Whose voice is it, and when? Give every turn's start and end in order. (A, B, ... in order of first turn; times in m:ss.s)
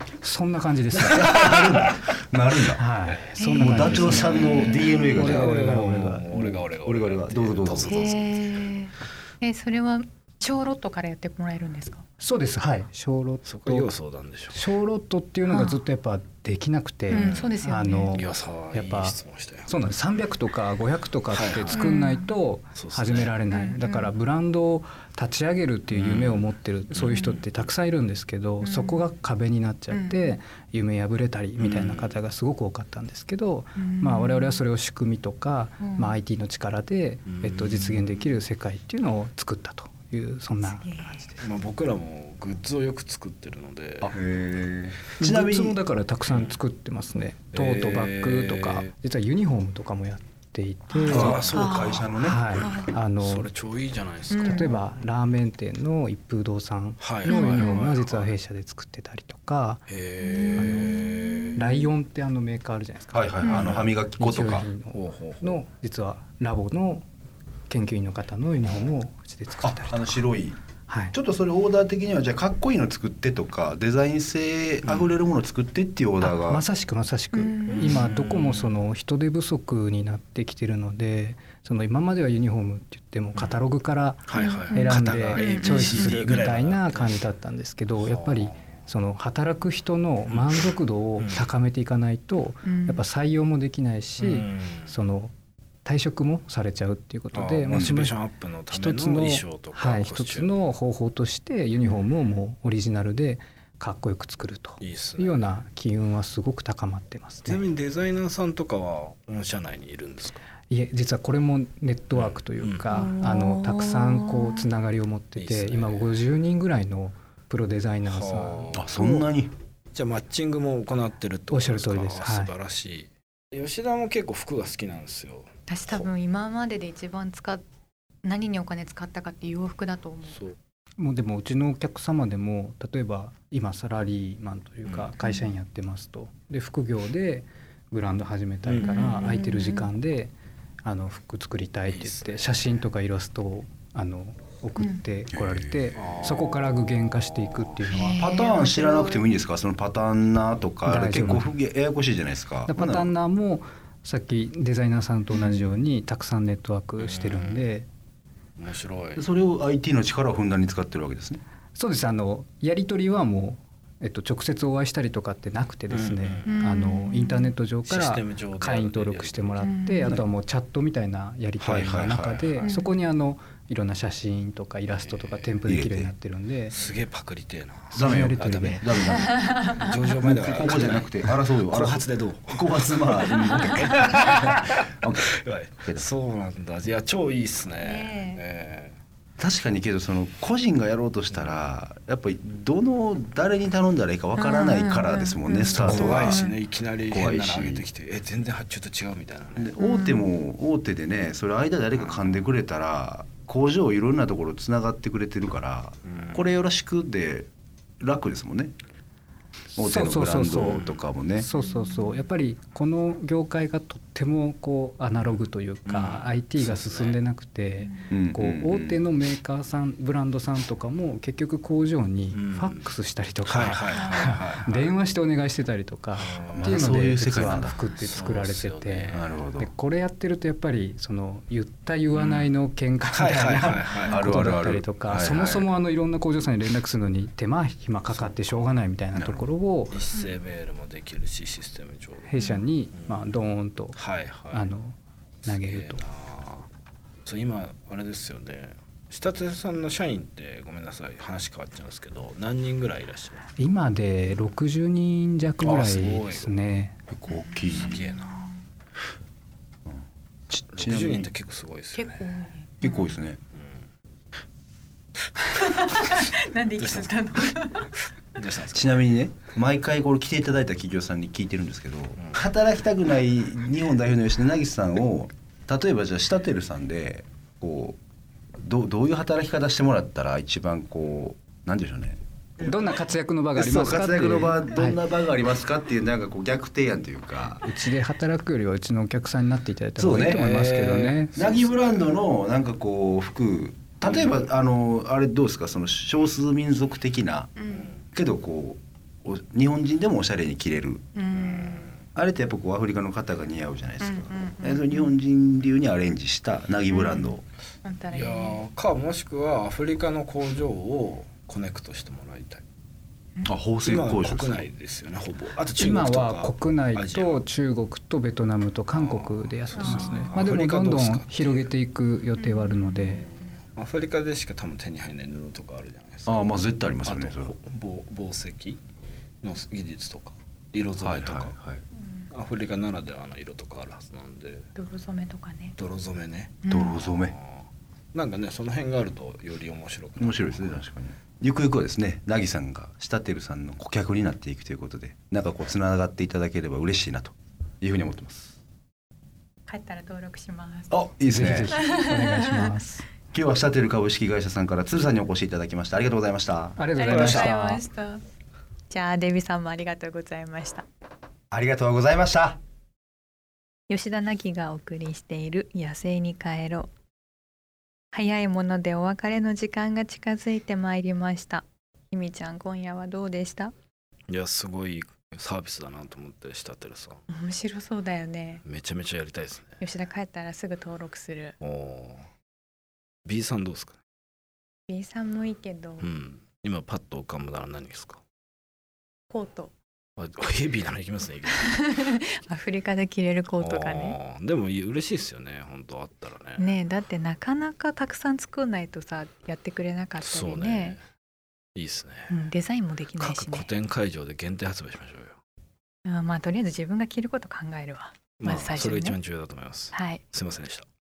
0:00.2-0:01.4 A
0:01.0-0:02.8 B
0:01.1-0:02.0 C
0:02.7-0:06.4 A
0:03.1-0:08.7 C
0:03.4-0:03.8 D
0:03.5-0:08.1 B
0:04.5-0:05.0 D
0:07.9-0:12.0 D
0:12.2-0:13.9 A
0:13.4-0:14.7 C
0:14.5-0:41.4 A
0:15.5-0:15.8 D
0:17.1-0:17.5 C
0:17.1-0:18.2 D
0:18.1-0:19.7 C
0:21.3-0:21.9 C
0:21.7-0:22.3 D
0:22.7-0:23.3 C
0:23.5-0:24.1 D
0:25.9-0:27.7 C
0:28.6-0:29.0 D
0:29.9-0:30.4 D
0:31.6-0:32.2 C
0:33.8-0:34.6 D
0:35.8-0:36.1 D
0:37.3-0:38.4 C
0:40.6-0:41.3 D
0:41.4-0:44.2 C
0:44.0-0:45.8 B
0:45.2-0:51.4 A
0:46.2-0:46.6 C
0:47.5-0:48.9 C
0:50.9-0:52.0 D
0:51.0-0:54.8 C
0:51.1-0:52.5 B
0:52.1-0:53.5 A
0:52.5-0:52.9 D
0:54.3-0:54.7 D
0:54.4-0:59.8 A
0:57.0-0:58.3 C
0:57.2-0:57.8 D
0:59.9-1:01.6 C
1:00.2-1:01.8 D
1:00.5-1:07.0 A
1:03.1-1:04.7 B
1:03.4-1:03.7 D
1:03.4-1:03.9 C
1:04.9-1:05.6 C
1:07.7-1:10.2 A
1:09.6-1:10.6 B
1:10.9-1:11.2 A
1:11.1-1:16.6 B
1:14.8-1:15.2 C
1:16.2-1:35.3 A
1:17.3-1:18.0 D
1:17.7-1:18.7 C
1:23.3-1:23.6 C
1:24.3-1:27.2 C
1:24.3-1:26.2 D
1:28.0-1:28.8 C
1:30.3-1:31.5 C
1:32.6-1:33.0 D
1:34.2-1:35.0 C
1:35.8-1:38.2 A
1:37.3-1:40.6 C
1:37.7-1:38.0 B
1:38.7-1:47.6 A
1:44.8-1:45.5 C
1:47.4-1:50.4 C
1:50.7-1:59.0 A
1:52.1-1:53.1 C
1:52.9-1:54.6 D
1:55.4-1:56.2 C
1:58.0-1:59.2 C
1:58.7-1:59.5 B
1:59.9-2:06.1 C
2:01.5-2:02.5 A
2:05.7-2:07.6 D
2:08.2-2:10.4 D
2:11.0-2:28.3 A
2:14.8-2:15.2 C
2:15.2-2:15.5 D
2:18.6-2:19.4 C
2:18.8-2:19.9 D
2:21.9-2:22.8 C
2:25.3-2:25.9 B
2:25.9-2:28.0 C
2:27.9-2:29.3 D
2:28.2-2:33.1 B
2:30.8-2:31.5 A
2:32.6-2:37.9 A
2:35.3-2:35.7 D
2:37.0-2:37.7 C
2:38.6-2:39.2 C
2:39.2-2:41.4 B
2:41.7-2:56.7 A
2:45.9-2:46.7 C
2:46.4-2:47.5 D
2:47.8-2:49.7 C
2:49.6-2:50.2 D
2:51.6-2:52.7 C
2:52.6-2:52.9 D
2:54.9-2:55.6 C
2:55.6-2:56.1 B
2:56.7-2:59.1 C
2:57.9-2:59.0 A
2:57.9-2:59.5 B
2:59.1-2:59.9 D
2:59.8-3:09.0 C
3:00.2-3:05.3 B
3:07.8-3:08.4 D
3:09.4-3:16.5 B
3:11.3-3:11.6 C
3:14.4-3:16.6 D
3:15.7-3:19.7 C
3:17.0-3:17.9 B
3:19.6-3:27.5 B
3:19.8-3:20.3 D
3:26.1-3:26.4 C
3:28.0-3:28.7 B
3:29.7-4:00.0 A
3:29.8-3:31.5 B
3:30.6-3:31.0 C
3:31.5-3:32.2 D
3:35.8-3:37.2 C
3:37.8-3:38.1 D
3:38.1-3:39.0 B
3:42.3-3:42.9 C
3:43.4-3:44.9 C
3:44.0-3:44.3 D
3:46.1-3:49.4 C
3:46.5-3:47.8 B
3:49.1-3:49.7 B
3:52.1-3:52.5 C
3:53.1-3:54.5 C
3:54.0-3:55.6 B
3:55.1-3:55.5 C
3:58.0-3:58.8 C
3:59.2-3:59.4 B
3:59.9-4:02.4 C
4:02.2-4:04.0 A
4:02.4-4:02.6 D
4:03.0-4:03.3 C
4:03.9-4:04.7 C
4:04.5-4:06.0 A
4:05.4-4:06.7 C
4:07.2-4:13.7 C
4:13.6-4:17.0 A
4:15.6-4:16.6 C
4:17.1-4:18.0 B
4:17.7-4:18.5 C
4:17.8-4:18.4 D
4:19.8-4:21.3 B
4:20.7-4:22.3 C
4:21.9-4:23.1 D
4:22.8-4:23.4 B
4:25.5-4:28.0 D
4:26.8-4:27.3 C
4:28.3-4:29.0 C
4:28.7-4:38.0 B
4:32.2-4:32.4 C
4:38.6-4:42.2 B
4:42.6-4:45.0 A
4:43.6-4:47.6 B
4:47.6-4:51.4 A
4:50.0-4:50.4 B
4:50.1-4:52.1 C
4:51.3-5:01.0 B
4:57.6-4:57.9 D
5:01.1-5:01.9 D
5:01.3-5:02.0 C
5:02.1-5:07.4 B
5:04.0-5:05.1 D
5:06.9-5:08.6 D
5:08.1-5:12.6 C
5:13.4-5:14.7 B
5:13.8-5:17.4 C
5:15.8-5:23.3 A
5:18.9-5:21.7 C
5:19.8-5:20.2 D
5:22.4-5:23.3 D
5:23.2-5:26.3 C
5:26.2-5:27.5 B
5:27.0-5:28.8 C
5:29.4-5:31.5 C
5:31.0-5:31.8 B
5:32.3-5:34.7 C
5:34.7-5:35.8 D
5:35.8-5:40.8 C
5:36.6-5:37.0 D
5:36.7-5:37.4 B
5:40.2-5:48.5 B
5:49.6-5:51.0 D
5:50.9-5:51.7 B
5:51.2-5:53.0 A
5:51.6-5:52.8 D
5:53.3-5:56.8 B
5:56.8-5:57.8 A
5:57.0-5:58.2 D
5:57.1-5:57.5 C
5:58.9-6:00.8 D
6:01.5-6:02.6 B
6:03.9-6:06.9 D
6:08.1-6:13.7 D
6:14.3-6:17.2 C
6:17.3-6:18.6 D
6:18.6-6:19.8 C
6:19.8-6:21.6 D
6:21.6-6:22.3 C
6:23.2-6:24.0 C
6:24.9-6:26.1 D
6:26.0-6:28.2 C
6:29.3-6:29.7 D
6:30.2-6:31.8 C
6:31.5-6:34.2 D
6:33.6-6:36.7 C
6:36.6-6:41.0 D
6:40.2-6:41.0 C
6:41.7-6:42.3 C
6:42.3-6:43.7 D
6:43.2-6:45.4 C
6:46.0-6:49.2 D
6:48.4-6:50.8 C
6:49.9-6:50.2 D